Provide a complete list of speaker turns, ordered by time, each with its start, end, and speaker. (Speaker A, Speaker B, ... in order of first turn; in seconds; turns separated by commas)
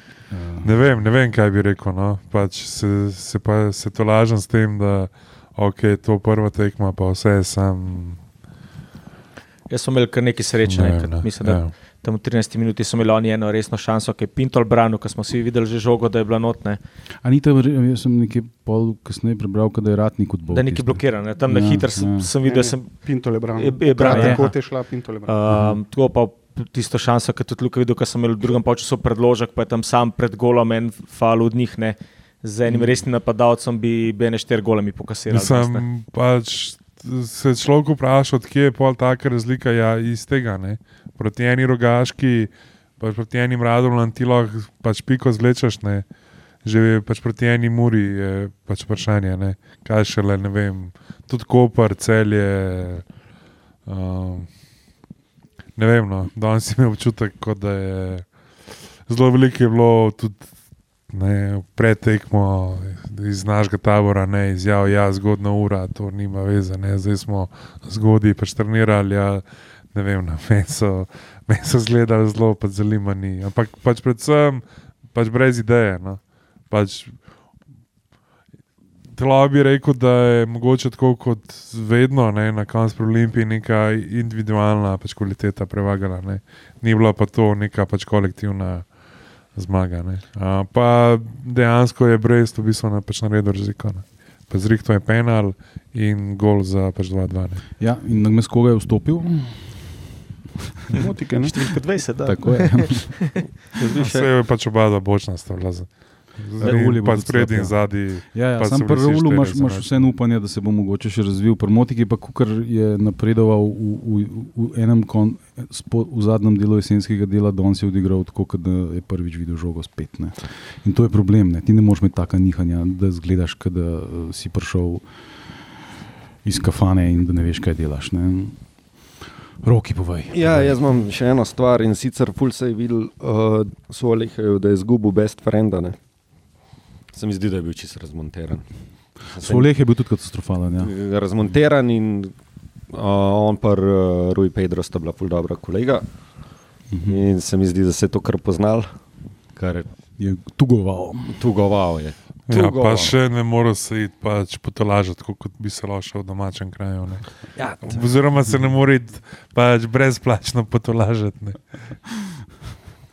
Speaker A: 0.3-0.7, Speaker B: 0.6-8.2, Speaker C: 9.7-16.8, Speaker B: 10.6-11.7, Speaker A: 17.2-22.3, Speaker C: 20.5-24.6, Speaker D: 22.4-25.3, Speaker A: 23.9-24.4, Speaker C: 25.3-35.8, Speaker A: 25.5-25.8, Speaker B: 35.3-46.0, Speaker B: 46.6-53.1, Speaker B: 53.8-54.6, Speaker B: 55.8-58.3, Speaker B: 59.0-60.5, Speaker B: 61.1-77.2, Speaker B: 79.1-89.0, Speaker B: 89.5-97.6, Speaker A: 97.8-100.0, Speaker D: 100.9-101.6, Speaker C: 101.3-103.2, Speaker A: 102.2-103.5, Speaker E: 103.8-104.3, Speaker B: 104.0-110.1, Speaker A: 106.6-125.0, Speaker A: 126.4-128.6, Speaker A: 129.6-130.8, Speaker E: 130.3-136.0, Speaker E: 137.1-138.7, Speaker E: 139.2-139.7, Speaker A: 139.3-140.9, Speaker E: 140.8-142.3, Speaker E: 142.9-146.1, Speaker A: 146.9-147.2, Speaker E: 147.1-149.0, Speaker E: 149.5-149.9, Speaker A: 150.2-151.4, Speaker E: 151.3-153.2, Speaker B: 152.5-162.1, Speaker E: 157.5-158.0